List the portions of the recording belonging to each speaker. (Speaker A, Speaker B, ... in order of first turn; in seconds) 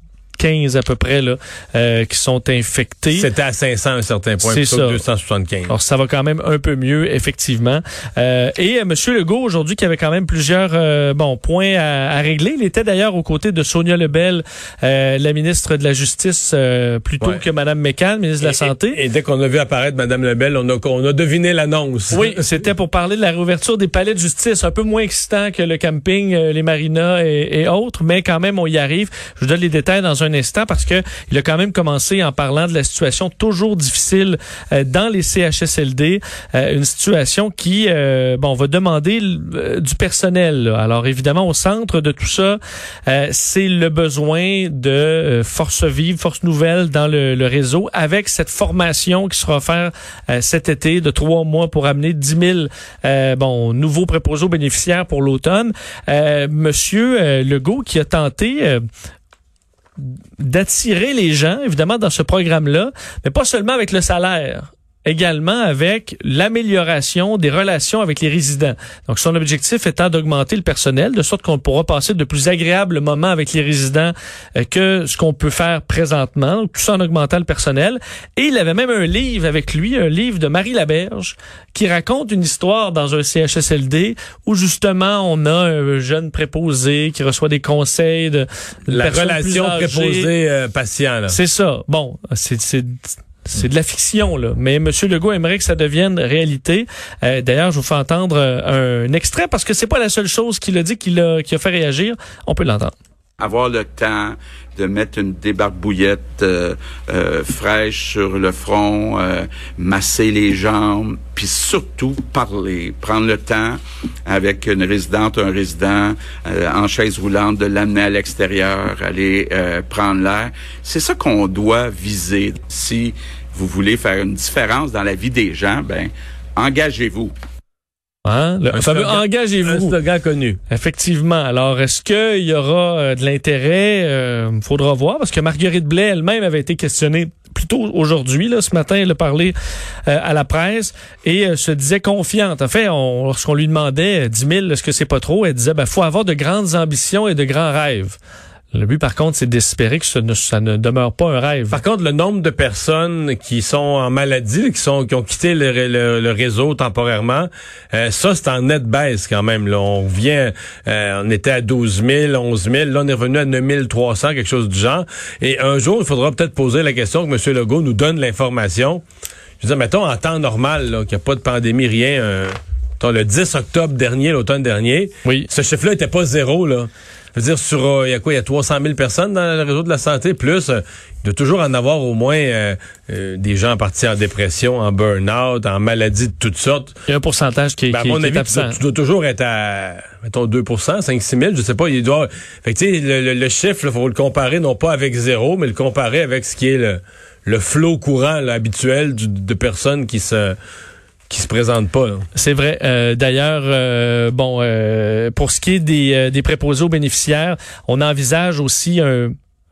Speaker A: 0.4-3.3, 4.4-5.0, 5.7-19.0, 22.1-58.8, 60.0-90.3, 91.3-102.9, 128.2-129.9, 130.7-139.5, 140.1-148.2, 148.7-151.8, 187.1-188.8, 202.3-209.3
Speaker B: 3.1-5.7, 18.4-22.5, 88.9-91.4, 128.7-130.6, 151.7-169.0, 169.6-187.0, 187.9-200.6, 201.3-202.2
Speaker C: 103.4-127.3